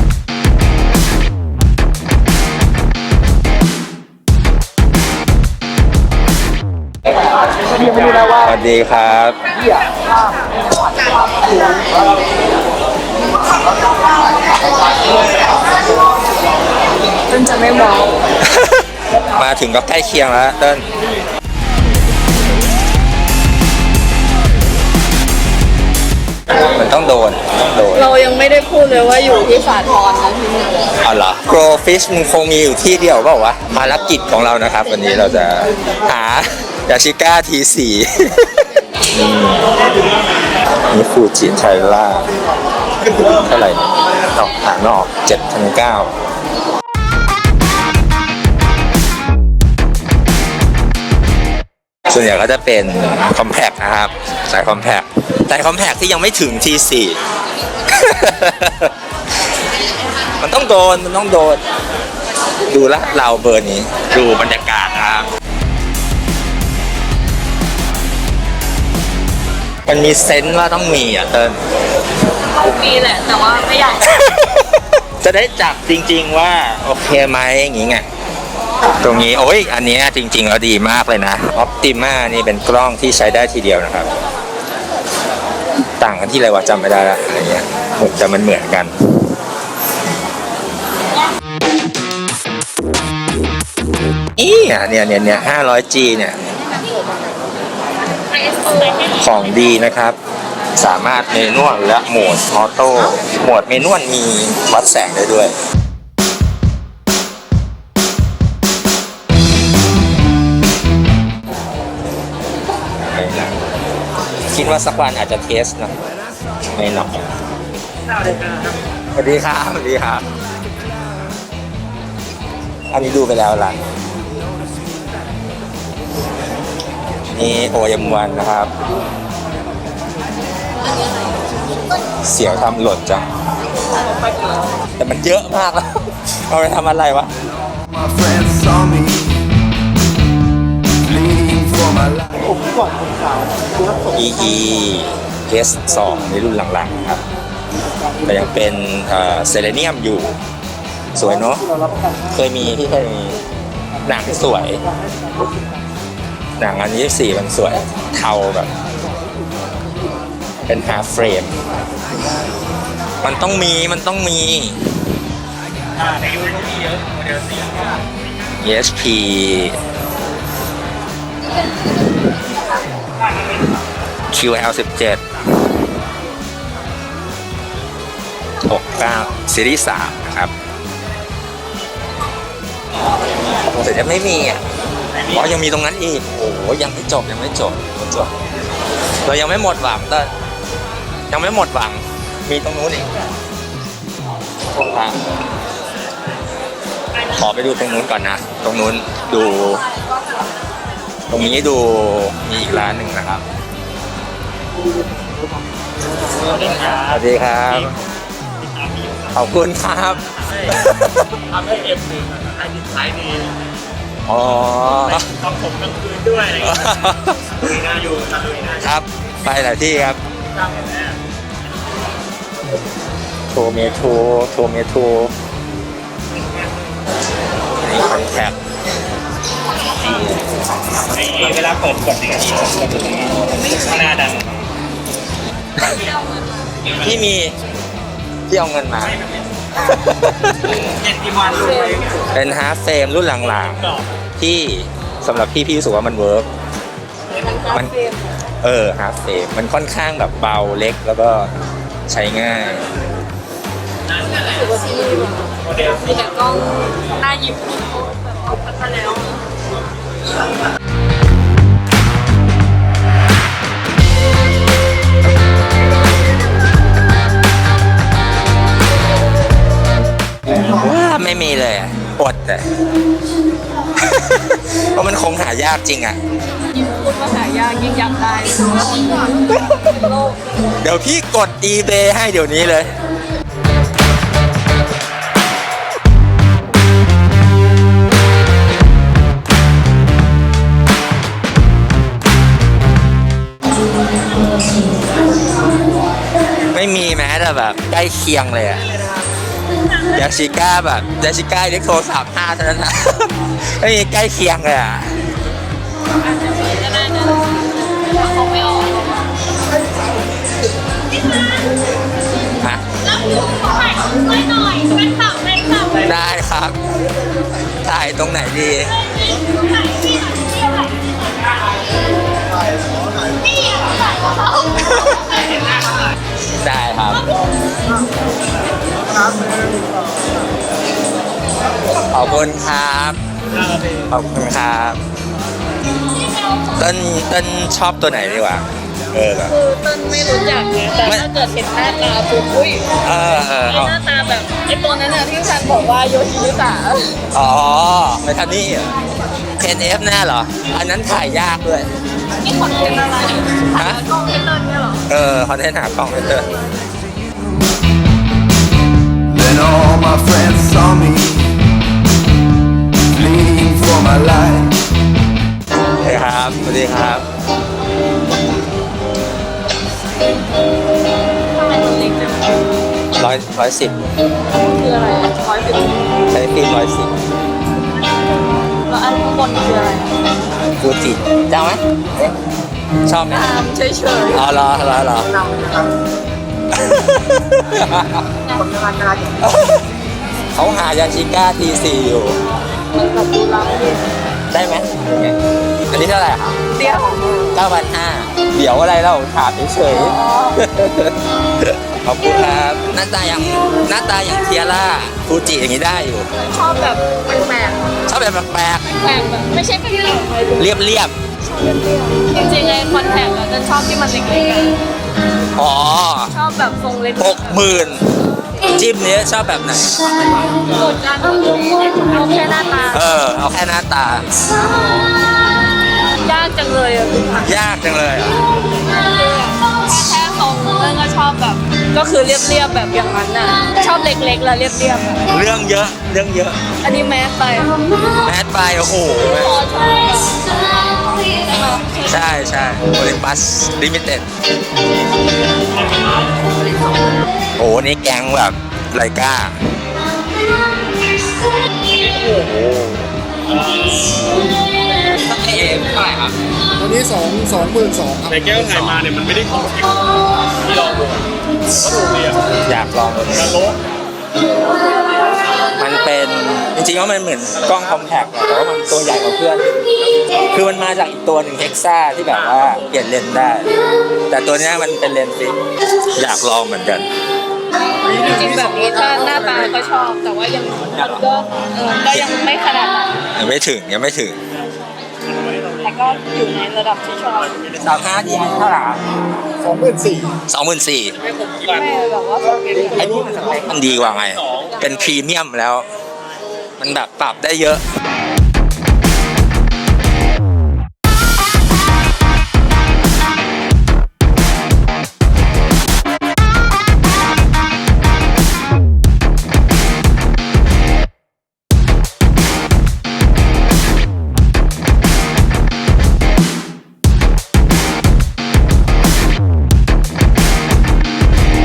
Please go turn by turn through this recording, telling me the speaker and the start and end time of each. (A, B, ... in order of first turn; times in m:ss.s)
0:07.7-0:08.5 A
0:08.4-0:09.4 B
0:17.3-0:18.1 A
0:18.4-0:20.9 B
0:26.6-0:28.1 B
0:27.9-0:30.9 A
0:31.0-0:39.7 B
0:40.9-0:42.3 B
0:43.0-0:46.1 B
0:52.1-0:57.2 B
0:57.8-0:58.9 B
1:00.4-1:01.6 B
1:02.7-1:05.3 B
1:09.8-1:11.6 B
1:12.5-1:14.2 A
1:14.1-1:18.0 B
1:18.8-1:24.1 B
1:26.0-1:28.9 B
1:34.4-1:36.4 B
1:38.3-1:39.2 A
1:39.1-1:40.2 B
1:40.8-1:45.5 B
1:53.0-1:53.6 B
1:54.5-1:55.9 B
1:56.7-1:57.3 B
1:59.1-2:00.2 B
2:02.9-2:03.8 B
2:07.3-2:08.7 B
2:12.2-2:13.2 B
2:15.0-2:17.3 B
2:18.0-2:19.4 C
2:21.1-2:22.6 C
2:24.1-2:27.2 B
2:28.2-2:30.3 B
2:31.1-2:31.6 B
2:32.3-2:33.4 B
2:34.0-2:34.8 B
2:36.6-2:38.7 B
2:40.6-2:41.5 B
2:43.2-2:44.8 B
2:46.0-2:47.7 D
2:48.6-2:49.8 B
2:54.3-2:55.2 B
2:58.6-3:00.5 B
3:03.6-3:04.6 B
3:05.2-3:08.3 B
3:09.2-3:10.3 B
3:11.3-3:13.1 B
3:14.7-3:15.2 B
3:17.2-3:19.8 B
3:21.3-3:23.4 B
3:26.5-3:27.0 D
3:26.8-3:27.9 B
3:28.8-3:29.2 D
3:29.3-3:31.4 B
3:31.5-3:33.5 D
3:34.3-3:35.3 B
3:35.2-3:36.6 D
3:36.6-3:37.6 B
3:38.0-3:38.6 D
3:38.7-3:40.2 B
3:40.6-3:41.1 D
3:43.5-3:45.3 B
3:47.8-3:48.6 B
3:49.9-3:50.4 B
3:51.2-3:54.5 D
3:57.0-3:57.5 B
3:58.5-3:59.2 B
3:59.8-4:00.8 B
4:01.2-4:01.4 D
4:01.4-4:02.0 A
4:02.3-4:03.8 B
4:04.4-4:06.5 B
4:07.3-4:08.2 A
4:08.6-4:11.5 B
4:12.1-4:12.8 B
4:14.3-4:19.4 A
4:30.5-4:32.6 B
4:34.0-4:36.2 B
4:36.7-4:40.4 A
4:40.8-4:42.9 B
4:56.7-4:58.8 B
5:00.1-5:05.2 B
5:06.2-5:09.2 A
5:12.6-5:12.8 B
5:13.1-5:16.0 A
5:16.0-5:16.8 B
5:17.8-5:19.0 B
5:19.9-5:20.6 A
5:24.8-5:25.3 B
5:26.6-5:27.3 B
5:32.0-5:33.2 B
5:34.1-5:35.0 B
5:36.7-5:39.5 B
5:39.4-5:43.0 A
5:43.0-5:44.0 B
5:43.6-5:47.2 A
5:47.3-5:48.9 B
5:49.6-5:51.9 B
5:52.4-5:55.0 A
5:53.7-5:54.0 B
5:55.1-5:56.5 B
5:59.3-6:01.5 C
6:03.1-6:04.8 C
6:06.0-6:07.2 B
6:11.5-6:12.6 A
6:13.2-6:13.9 B
6:14.5-6:16.1 A
6:16.3-6:17.1 B
6:18.7-6:20.2 A
6:20.8-6:22.4 B
6:23.0-6:23.5 B
6:23.3-6:24.5 A
6:24.3-6:25.3 B
6:25.4-6:25.9 A
6:26.7-6:28.2 B
6:28.4-6:29.3 A
6:29.4-6:29.8 B
6:30.5-6:32.4 B
6:32.7-6:34.0 A
6:34.5-6:36.6 B
6:36.7-6:37.5 A
6:37.5-6:46.3 B
6:39.9-6:40.6 A
6:46.4-6:48.0 A
6:48.1-6:48.8 B
6:48.8-6:50.7 A
6:50.6-6:51.1 B
6:51.4-6:54.8 A
6:55.5-6:56.3 B
6:56.3-6:57.6 A
6:57.2-6:58.0 B
6:58.7-7:00.0 B
7:00.4-7:03.1 A
7:02.9-7:04.3 B
7:04.6-7:05.1 A
7:06.2-7:07.5 A
7:07.4-7:08.4 B
7:08.7-7:15.3 A
7:15.3-7:16.6 B
7:16.8-7:17.8 A
7:18.2-7:19.5 B
7:19.2-7:22.2 A
7:22.0-7:24.2 B
7:27.6-7:29.6 B
7:32.2-7:33.0 B
7:33.5-7:34.3 D
7:35.2-7:36.4 B
7:36.8-7:38.3 E
7:38.2-7:40.0 D
7:40.6-7:42.4 D
7:42.6-7:43.6 B
7:45.8-7:49.7 B
7:50.5-7:53.7 B
7:54.3-7:55.6 B
7:56.1-7:57.1 B
7:58.0-8:03.2 A
8:00.9-8:01.2 B
8:03.3-8:04.4 B
8:05.8-8:07.6 A
8:07.8-8:09.0 B
8:09.6-8:10.3 E
8:10.4-8:11.2 B
8:11.4-8:13.2 A
8:12.8-8:15.9 B
8:14.2-8:14.5 D
8:16.8-8:17.8 B